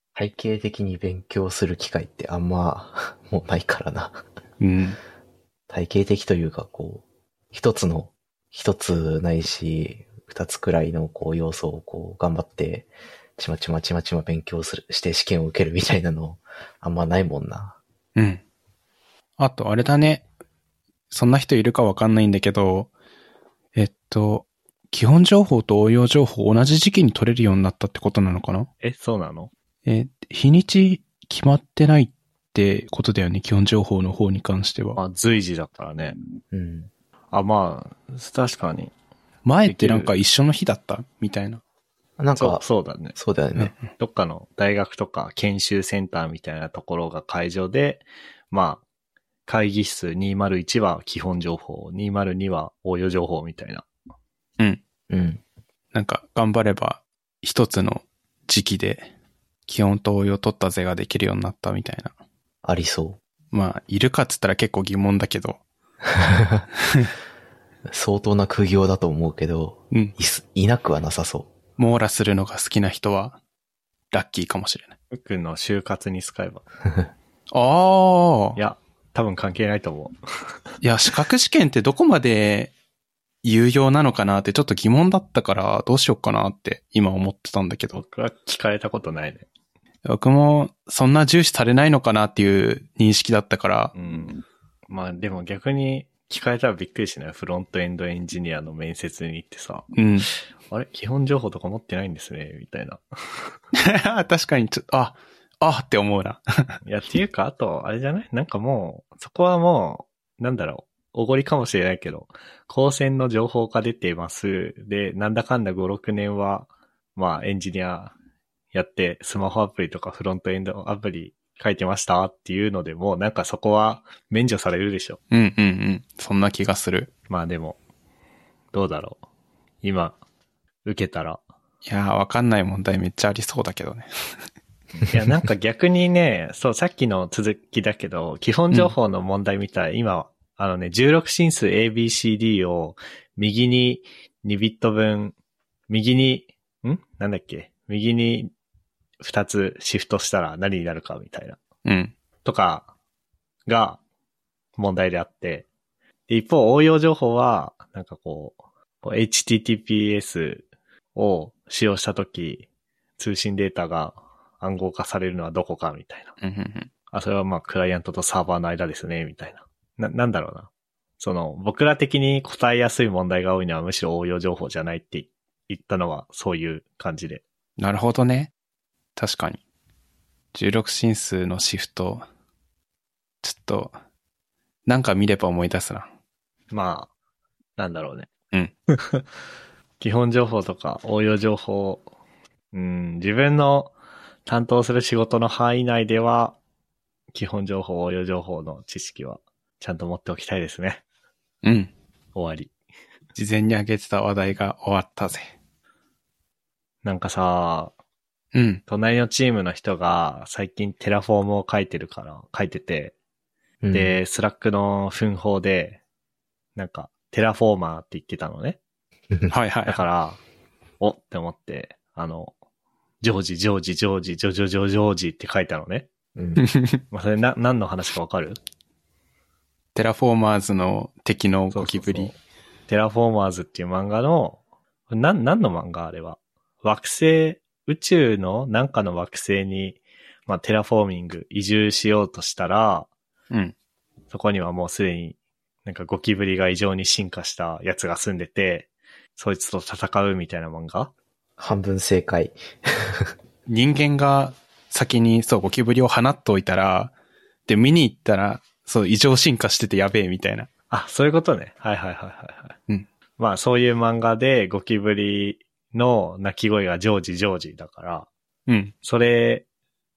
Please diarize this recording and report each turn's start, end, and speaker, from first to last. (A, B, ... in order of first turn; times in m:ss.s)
0:00.2-0:04.2 A
0:04.6-0:05.0 B
0:05.7-0:17.8 A
0:18.2-0:18.4 B
0:19.4-0:20.3 B
0:21.1-0:22.9 B
0:23.8-0:28.7 B
0:28.8-0:29.5 C
0:29.8-0:35.0 B
0:35.0-0:36.2 C
0:36.5-0:36.9 A
0:37.3-0:38.9 C
0:39.4-0:41.6 B
0:39.6-0:40.1 C
0:42.2-0:43.7 A
0:42.4-0:43.2 C
0:43.6-0:43.9 B
0:44.0-0:48.8 C
0:49.5-0:53.9 C
0:55.1-0:55.4 A
0:55.9-0:59.1 B
0:59.7-1:02.1 B
1:02.6-1:03.2 A
1:03.5-1:05.6 B
1:06.2-1:06.6 A
1:07.9-1:11.5 A
1:11.8-1:13.4 B
1:14.1-1:15.0 B
1:15.1-1:16.6 C
1:17.5-1:18.6 B
1:18.6-1:20.2 C
1:20.8-1:22.7 B
1:23.4-1:28.0 B
1:28.0-1:29.4 C
1:30.0-1:33.9 B
1:34.0-1:39.9 C
1:39.9-1:40.3 B
1:40.7-1:43.5 C
1:43.8-1:46.8 B
1:46.8-1:58.1 C
1:58.7-2:05.2 C
2:05.3-2:07.1 B
2:07.3-2:07.8 C
2:08.7-2:09.2 C
2:09.8-2:10.2 C
2:10.8-2:11.4 C
2:11.8-2:14.1 B
2:15.1-2:25.4 C
2:25.9-2:28.5 C
2:29.2-2:31.6 C
2:31.8-2:32.1 B
2:32.4-2:32.9 C
2:33.7-2:34.0 C
2:34.8-2:35.7 C
2:36.3-2:42.7 C
2:43.2-2:46.3 C
2:46.4-2:46.9 B
2:47.1-2:57.4 C
2:57.8-2:58.5 B
2:59.2-2:59.6 B
3:00.5-3:02.3 B
3:03.4-3:04.0 B
3:04.9-3:06.1 B
3:06.7-3:07.1 C
3:07.8-3:08.3 C
3:08.9-3:09.2 C
3:10.0-3:12.1 C
3:12.7-3:13.9 C
3:14.5-3:16.6 C
3:17.3-3:21.0 C
3:21.6-3:21.9 B
3:22.4-3:22.7 C
3:23.4-3:25.5 B
3:27.0-3:27.9 C
3:28.5-3:28.8 B
3:28.9-3:33.2 C
3:33.8-3:34.2 A
3:33.9-3:36.0 C
3:36.8-3:38.8 C
3:39.5-3:40.0 B
3:39.9-3:40.4 C
3:41.0-3:42.5 C
3:43.2-3:46.1 C
3:46.4-3:46.6 A
3:46.6-3:47.0 B
3:47.1-3:48.6 C
3:50.0-3:52.3 B
3:51.7-3:52.4 C
3:52.9-4:03.1 C
4:04.3-4:11.1 C
4:11.6-4:13.3 A
4:13.7-4:17.1 B
4:17.7-4:20.7 B
4:20.9-4:22.8 C
4:23.4-4:28.3 C
4:28.7-4:28.9 B
4:29.0-4:29.6 C